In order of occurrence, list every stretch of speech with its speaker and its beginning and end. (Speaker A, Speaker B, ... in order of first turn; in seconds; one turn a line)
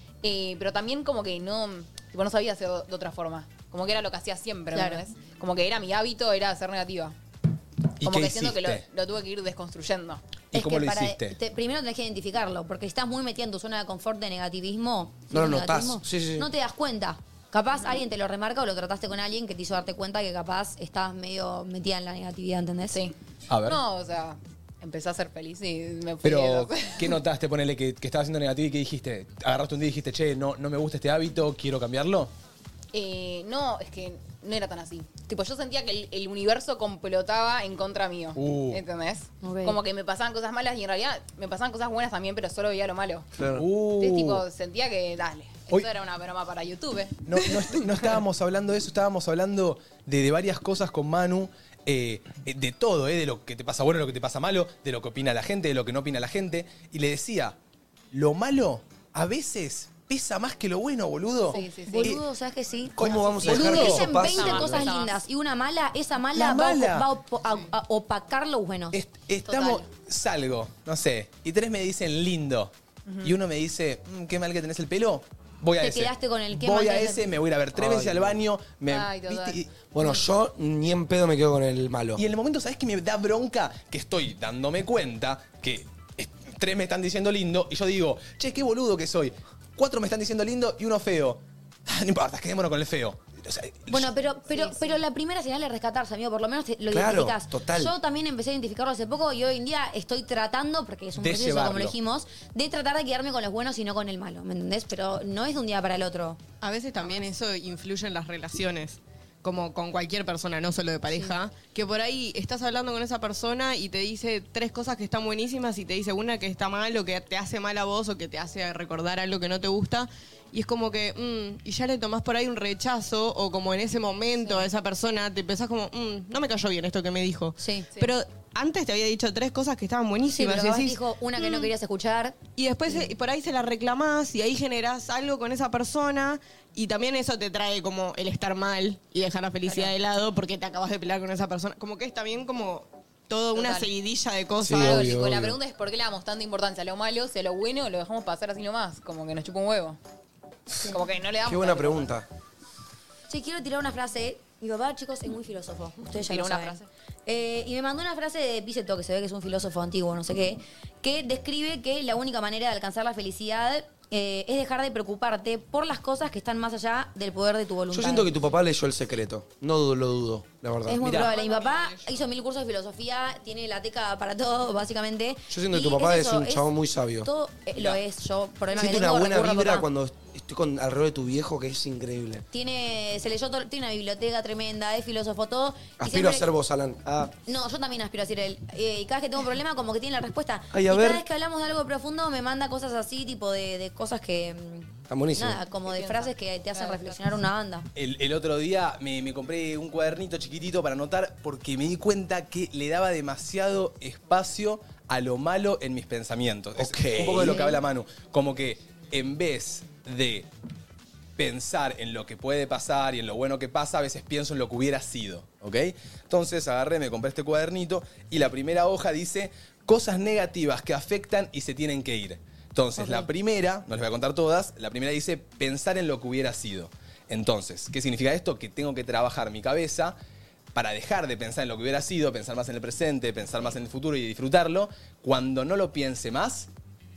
Speaker A: 0.2-7.1
Speaker B: 4.7-5.0
Speaker C: 8.0-8.8
Speaker A: 8.0-10.2
Speaker C: 10.5-11.4
Speaker B: 10.5-23.0
Speaker D: 15.3-16.5
Speaker A: 22.9-27.1
Speaker C: 23.5-23.8
Speaker C: 26.2-32.3
Speaker A: 32.9-43.3
Speaker C: 38.4-38.8
Speaker B: 39.4-39.8
Speaker D: 43.4-43.6
Speaker C: 43.5-44.4
Speaker A: 44.0-47.8
Speaker C: 47.2-57.6
Speaker C: 58.1-62.2
Speaker A: 61.5-62.2
Speaker B: 61.5-69.0
Speaker D: 63.0-64.9
Speaker C: 63.0-64.3
Speaker A: 63.4-65.2
Speaker C: 66.3-67.1
Speaker C: 68.9-79.7
Speaker A: 69.4-69.8
Speaker A: 73.0-73.3
Speaker B: 75.8-77.2
Speaker D: 77.8-78.3
Speaker A: 78.9-79.6
Speaker D: 79.9-82.2
Speaker C: 82.2-94.1
Speaker B: 93.9-106.4
Speaker A: 94.6-95.0
Speaker D: 96.9-97.9
Speaker C: 101.2-102.0
Speaker E: 106.6-131.0
Speaker B: 127.6-127.9
Speaker B: 130.2-133.1
Speaker E: 132.5-145.1
Speaker A: 143.5-143.9
Speaker D: 144.6-145.6
Speaker A: 144.8-150.0
Speaker A: 150.8-152.1
Speaker D: 151.4-152.3
Speaker B: 153.3-168.3
Speaker A: 156.1-156.9
Speaker D: 167.9-171.0
Speaker B: 170.8-176.7
Speaker C: 171.0-171.3
Speaker A: 171.3-172.1
Speaker D: 175.5-177.3
Speaker B: 177.2-179.9
Speaker D: 178.7-182.4
Speaker B: 182.5-186.4
Speaker D: 186.0-187.3
Speaker B: 187.4-197.9
Speaker D: 190.7-191.2
Speaker D: 195.1-195.6
Speaker A: 195.8-197.2
Speaker C: 197.9-210.5
Speaker D: 206.8-207.6
Speaker C: 211.4-230.2
Speaker B: 223.0-223.3
Speaker C: 230.7-236.7